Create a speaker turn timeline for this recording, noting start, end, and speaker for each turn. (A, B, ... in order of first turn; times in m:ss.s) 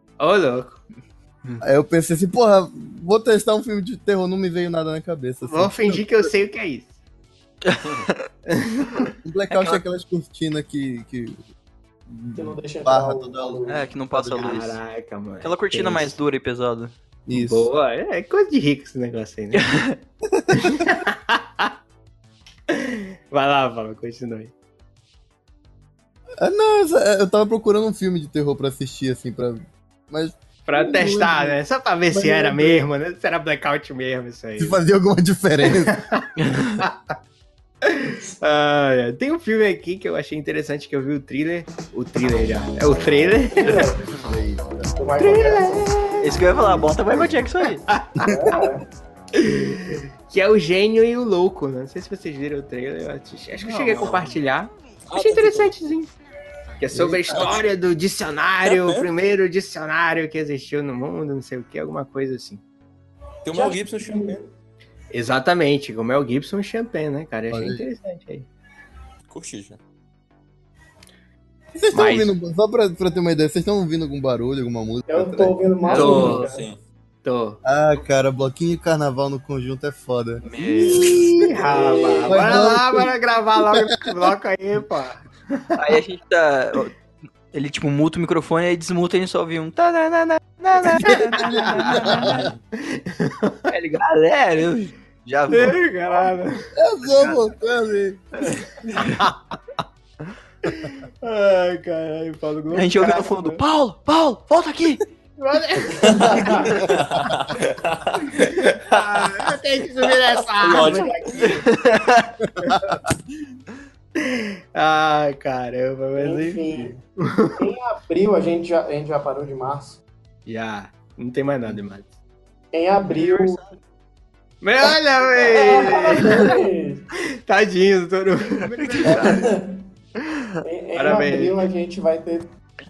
0:00.2-0:00.8 A
0:01.6-0:06.3 B
0:05.4-0:06.9 A
0:07.6-0:08.2 C
0:08.5-0:09.1 A
0:09.2-0:11.4 B
0:09.5-0:09.8 C
0:12.1-0:13.6 B
0:12.4-0:14.5 D
0:13.7-0:14.8 C
0:14.3-0:16.2 A
0:15.4-0:17.0 C
0:17.3-0:17.7 B
0:17.3-0:19.7 A
0:19.5-0:20.0 C
0:20.5-0:21.7 A
0:22.7-0:24.5 A
0:26.4-0:31.6 B
0:30.7-0:34.8 A
0:32.1-0:32.8 B
0:34.6-0:36.0 B
0:35.6-0:37.1 A
0:36.5-0:36.8 C
0:37.8-0:43.9 A
0:43.6-0:44.1 D
0:43.7-0:45.0 B
0:45.0-0:46.0 D
0:45.2-0:46.6 A
0:46.2-0:47.8 C
0:47.9-0:48.7 A
0:48.2-0:48.8 D
0:49.4-0:56.1 A
0:53.6-0:54.3 E
0:55.1-0:55.8 E
0:56.8-1:02.6 A
0:56.9-0:57.6 B
0:57.3-0:57.6 E
0:58.6-0:59.1 E
1:03.4-1:04.4 E
1:03.5-1:04.5 D
1:05.1-1:08.5 A
1:07.5-1:07.8 B
1:09.3-1:09.8 E
1:11.7-1:16.1 B
1:11.9-1:12.3 A
1:15.1-1:16.7 D
1:15.9-1:16.8 E
1:15.9-1:16.5 A
1:16.0-1:16.4 C
1:17.2-1:17.6 A
1:17.6-1:21.5 B
1:20.4-1:21.4 C
1:20.7-1:22.5 D
1:21.4-1:25.8 A
1:22.3-1:23.6 B
1:25.8-1:27.0 C
1:27.5-1:32.5 C
1:30.8-1:33.6 A
1:31.1-1:32.4 B
1:33.7-1:36.3 C
1:35.5-1:36.7 A
1:36.8-1:38.3 B
1:38.5-1:39.2 C
1:39.0-1:39.4 A
1:40.6-1:43.6 A
1:42.7-1:45.0 C
1:45.4-1:46.6 A
1:46.0-1:46.8 D
1:46.4-1:46.9 C
1:46.8-1:48.7 E
1:48.4-1:51.7 A
1:50.6-1:51.6 E
1:51.4-1:52.3 C
1:52.6-1:53.0 B
1:54.2-1:56.7 A
1:56.2-1:57.0 D
1:57.2-1:57.6 A
1:57.6-2:00.0 D
2:00.5-2:02.1 A
2:02.7-2:03.6 D
2:03.2-2:03.6 C
2:04.6-2:06.7 A
2:05.4-2:07.1 D
2:07.4-2:09.5 A
2:08.8-2:09.3 C
2:09.0-2:09.9 D
2:10.2-2:10.6 C
2:10.6-2:12.5 D
2:11.0-2:11.7 A